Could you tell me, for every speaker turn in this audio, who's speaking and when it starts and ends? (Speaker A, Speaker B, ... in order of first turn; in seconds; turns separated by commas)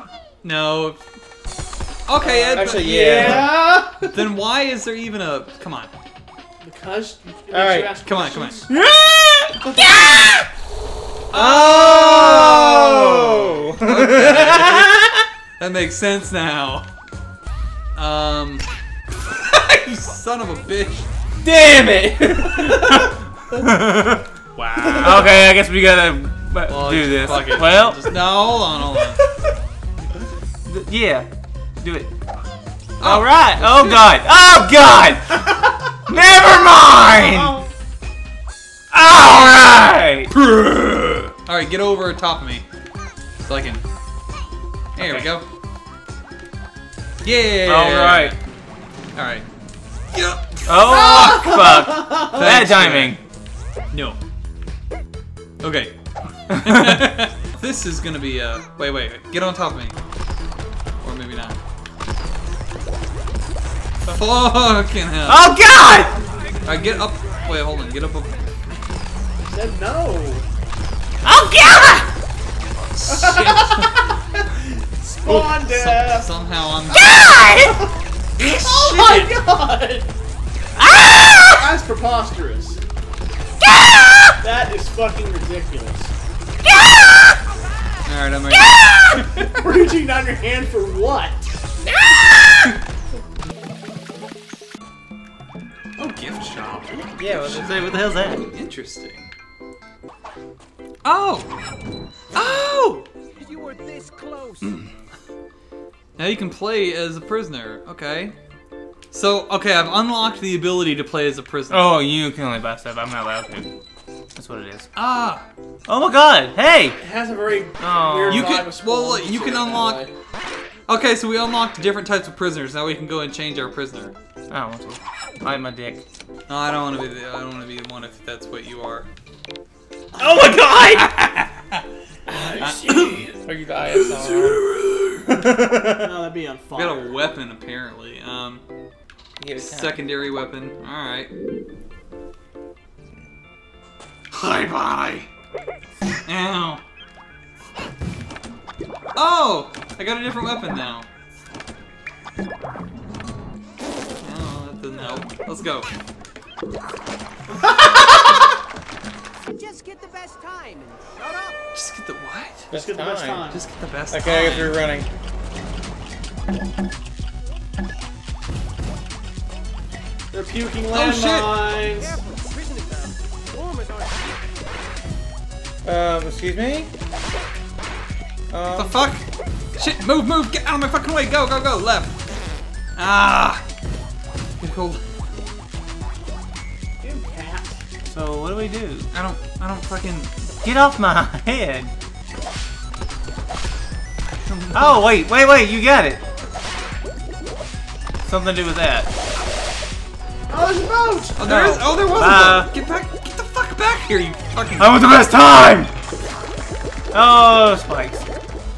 Speaker A: 0.4-1.0, Speaker A: 2.1-5.9, Speaker B: 2.2-4.2, Speaker C: 2.5-3.6, Speaker B: 6.6-8.7, Speaker C: 7.5-7.9, Speaker A: 8.0-8.7, Speaker C: 8.7-10.5, Speaker B: 9.6-10.1, Speaker A: 11.3-14.9, Speaker C: 11.3-15.3, Speaker A: 15.6-16.9, Speaker A: 18.0-18.6, Speaker A: 19.3-21.1, Speaker C: 21.4-24.3, Speaker A: 22.8-23.1, Speaker A: 24.6-25.5, Speaker C: 24.9-28.1, Speaker A: 26.7-29.2, Speaker C: 30.7-32.1, Speaker A: 33.0-34.2, Speaker C: 33.0-35.5, Speaker C: 36.1-37.6, Speaker B: 37.0-37.7, Speaker C: 38.9-40.3, Speaker A: 39.2-39.7, Speaker A: 40.3-42.6, Speaker A: 43.4-43.8, Speaker A: 45.0-45.5, Speaker C: 45.0-45.3, Speaker A: 47.2-48.4, Speaker C: 47.7-48.4, Speaker A: 49.2-49.5, Speaker A: 50.1-51.6, Speaker C: 50.7-53.2, Speaker B: 50.8-52.5, Speaker A: 52.3-53.2, Speaker A: 53.9-54.2, Speaker A: 55.6-56.0, Speaker A: 56.5-60.0, Speaker C: 56.7-57.0, Speaker A: 61.0-61.6, Speaker A: 64.1-65.5, Speaker C: 65.3-66.2, Speaker A: 66.7-68.4, Speaker B: 69.5-70.5, Speaker C: 71.2-72.1, Speaker A: 72.8-74.1, Speaker B: 73.1-74.4, Speaker B: 75.0-76.3, Speaker A: 75.2-77.1, Speaker B: 76.9-80.1, Speaker C: 76.9-77.8, Speaker A: 78.4-79.4, Speaker C: 80.8-81.7, Speaker B: 81.5-82.8, Speaker C: 83.6-84.3, Speaker B: 84.4-86.1, Speaker C: 86.7-87.3, Speaker A: 88.1-89.6, Speaker C: 88.5-88.9, Speaker B: 89.6-91.6, Speaker A: 96.0-99.3, Speaker C: 97.2-98.5, Speaker A: 101.0-101.5, Speaker A: 102.3-103.1, Speaker D: 103.4-104.6, Speaker A: 106.2-108.3, Speaker A: 109.1-112.0, Speaker C: 111.7-113.7, Speaker C: 114.4-114.9, Speaker A: 115.0-115.5, Speaker C: 115.9-117.0, Speaker B: 117.0-120.1, Speaker C: 117.8-118.5, Speaker A: 118.3-120.1, Speaker A: 120.9-124.2, Speaker C: 124.5-126.0, Speaker A: 126.5-129.1, Speaker A: 130.2-131.8, Speaker C: 130.2-131.2, Speaker C: 132.3-134.7, Speaker B: 132.3-133.4, Speaker A: 132.6-133.3, Speaker A: 133.9-135.4, Speaker C: 135.3-136.1, Speaker B: 135.7-137.2, Speaker A: 136.8-138.6, Speaker C: 139.4-140.0, Speaker A: 139.6-141.3, Speaker A: 144.3-145.3, Speaker A: 146.3-146.8, Speaker A: 149.2-151.1, Speaker A: 154.2-155.9, Speaker B: 157.6-158.2, Speaker D: 159.6-161.3, Speaker A: 161.7-162.7, Speaker C: 162.7-163.5, Speaker B: 162.7-163.7, Speaker A: 163.5-164.8, Speaker C: 164.1-165.1, Speaker B: 170.3-172.2, Speaker A: 170.9-171.6, Speaker D: 172.6-174.1, Speaker C: 175.8-176.9, Speaker C: 178.5-179.0, Speaker A: 178.7-179.2, Speaker A: 179.7-182.2, Speaker A: 183.0-183.6, Speaker A: 184.6-185.0, Speaker B: 187.0-187.8, Speaker C: 188.1-189.1, Speaker A: 189.1-190.3, Speaker C: 190.6-191.9, Speaker A: 194.4-195.2, Speaker C: 194.7-196.2, Speaker C: 198.3-199.1, Speaker B: 200.5-201.5, Speaker A: 201.4-205.0, Speaker C: 201.4-202.7, Speaker C: 204.8-205.9, Speaker C: 207.1-208.2